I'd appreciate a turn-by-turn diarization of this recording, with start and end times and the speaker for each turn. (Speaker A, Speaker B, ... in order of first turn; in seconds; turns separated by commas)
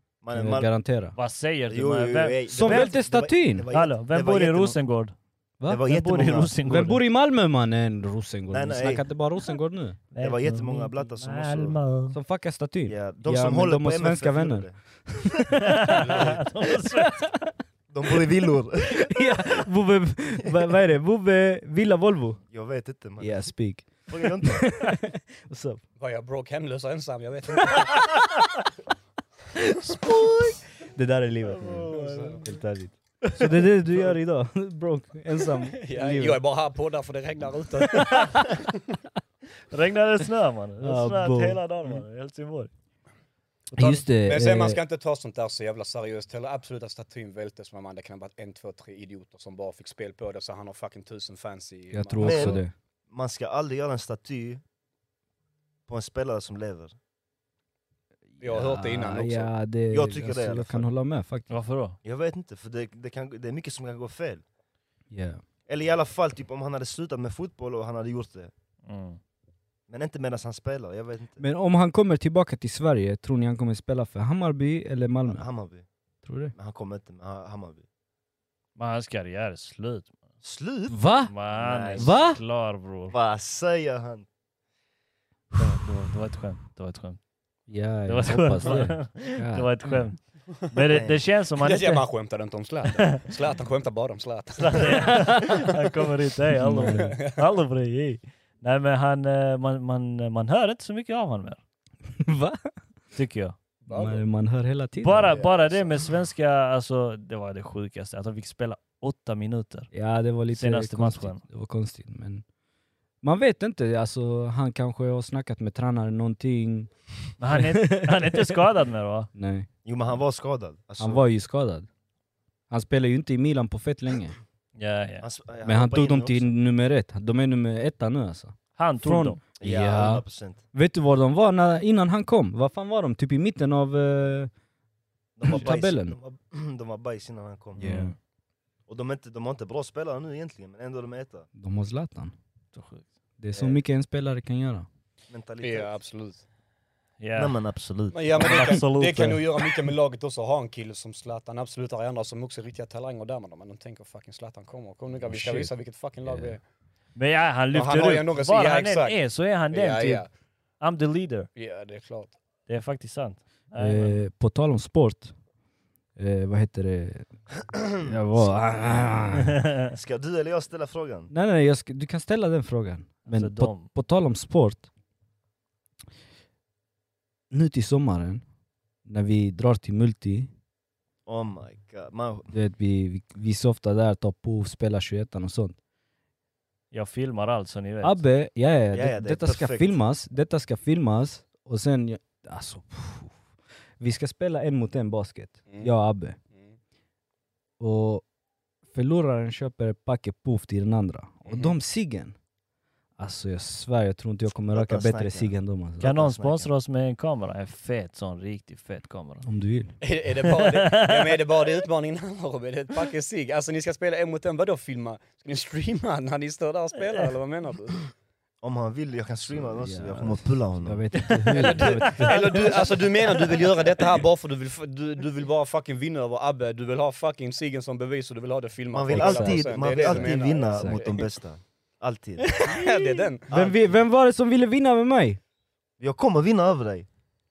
Speaker A: 0.2-0.7, Speaker B: 0.3-1.1, Speaker C: 1.1-3.0, Speaker A: 1.7-4.8, Speaker B: 2.5-3.7, Speaker C: 3.7-5.1, Speaker B: 5.6-5.9, Speaker A: 5.7-6.8, Speaker C: 5.8-7.0, Speaker B: 6.6-10.0, Speaker A: 8.5-9.1, Speaker C: 10.1-12.2, Speaker A: 10.2-11.8, Speaker B: 12.1-15.9, Speaker A: 12.8-14.8, Speaker C: 15.6-17.4, Speaker D: 16.0-16.4, Speaker B: 16.9-17.3, Speaker A: 17.9-19.1, Speaker B: 18.9-22.4, Speaker A: 22.5-23.5, Speaker B: 23.2-25.8, Speaker A: 24.1-24.7, Speaker D: 26.0-28.1, Speaker B: 29.7-36.4, Speaker C: 31.5-32.6, Speaker D: 31.9-32.4, Speaker C: 33.2-33.5, Speaker D: 35.8-38.8, Speaker C: 37.9-38.4, Speaker C: 39.7-42.7, Speaker B: 40.8-41.6, Speaker B: 43.7-44.8, Speaker C: 43.7-44.0, Speaker D: 44.1-52.6, Speaker B: 51.9-52.7, Speaker A: 52.2-54.6, Speaker A: 55.9-57.0, Speaker B: 58.3-61.5, Speaker D: 58.4-59.5, Speaker A: 59.9-60.9, Speaker C: 61.5-62.0, Speaker A: 62.0-64.4, Speaker B: 65.1-65.4, Speaker A: 65.7-68.5, Speaker C: 68.8-69.2, Speaker A: 69.9-71.4, Speaker B: 71.4-75.5, Speaker A: 75.3-75.9, Speaker B: 76.2-76.5, Speaker A: 76.5-77.8, Speaker C: 78.8-80.2, Speaker A: 80.4-82.3, Speaker B: 80.9-81.3, Speaker C: 81.3-83.2, Speaker B: 81.9-82.4, Speaker A: 83.1-84.3, Speaker C: 85.5-87.2, Speaker B: 87.7-90.0, Speaker C: 88.0-92.0, Speaker A: 90.9-91.2, Speaker D: 91.6-95.4, Speaker C: 94.6-101.6, Speaker B: 95.1-95.5, Speaker B: 96.6-97.2, Speaker D: 96.9-97.4, Speaker B: 102.2-102.7, Speaker C: 103.1-103.6, Speaker D: 103.8-104.2, Speaker B: 103.9-105.4, Speaker C: 105.0-109.9, Speaker D: 105.3-105.9, Speaker B: 109.9-112.4, Speaker C: 110.5-111.4, Speaker B: 113.2-116.9, Speaker C: 117.4-119.3, Speaker B: 117.5-118.5, Speaker B: 119.3-119.7, Speaker A: 119.8-121.2, Speaker B: 121.0-121.9, Speaker B: 122.7-124.3, Speaker C: 124.8-125.2, Speaker A: 125.2-126.5, Speaker B: 125.6-134.5, Speaker C: 128.8-129.4, Speaker A: 129.6-130.6, Speaker A: 135.3-138.0, Speaker B: 135.4-136.2, Speaker B: 137.8-138.1, Speaker C: 137.8-138.1, Speaker A: 138.9-141.5, Speaker B: 141.6-142.3, Speaker C: 142.7-143.1, Speaker B: 143.4-144.9, Speaker D: 143.5-143.8, Speaker A: 145.3-145.9, Speaker D: 145.6-146.4, Speaker C: 147.2-147.6, Speaker A: 147.3-148.8, Speaker D: 148.1-156.6, Speaker C: 148.3-149.5, Speaker B: 155.3-155.7, Speaker B: 156.2-156.5, Speaker C: 157.1-160.2, Speaker D: 157.7-159.2, Speaker D: 159.7-160.3, Speaker C: 160.8-161.5, Speaker D: 161.5-162.3, Speaker C: 162.7-164.2, Speaker B: 163.8-165.3, Speaker B: 166.2-167.3, Speaker B: 168.0-169.6, Speaker C: 169.5-169.9, Speaker A: 169.9-171.3, Speaker B: 171.3-174.9, Speaker C: 173.2-173.9, Speaker B: 177.5-178.4, Speaker B: 179.0-180.5, Speaker A: 181.2-182.5, Speaker B: 182.5-185.8, Speaker C: 186.9-188.2, Speaker B: 188.0-193.4, Speaker A: 188.9-189.9, Speaker B: 194.0-196.4, Speaker B: 197.8-198.2, Speaker B: 198.9-202.3, Speaker D: 201.5-201.7, Speaker B: 203.2-206.1, Speaker A: 204.7-206.7, Speaker C: 206.0-209.4, Speaker B: 209.4-209.9, Speaker D: 210.0-218.1, Speaker C: 210.6-211.4, Speaker A: 218.6-221.1, Speaker B: 219.5-222.8, Speaker C: 221.2-222.7, Speaker D: 221.5-231.3, Speaker A: 228.9-232.6, Speaker B: 229.1-231.1, Speaker D: 232.5-233.5, Speaker B: 233.5-235.4, Speaker A: 233.5-233.8, Speaker A: 236.0-237.1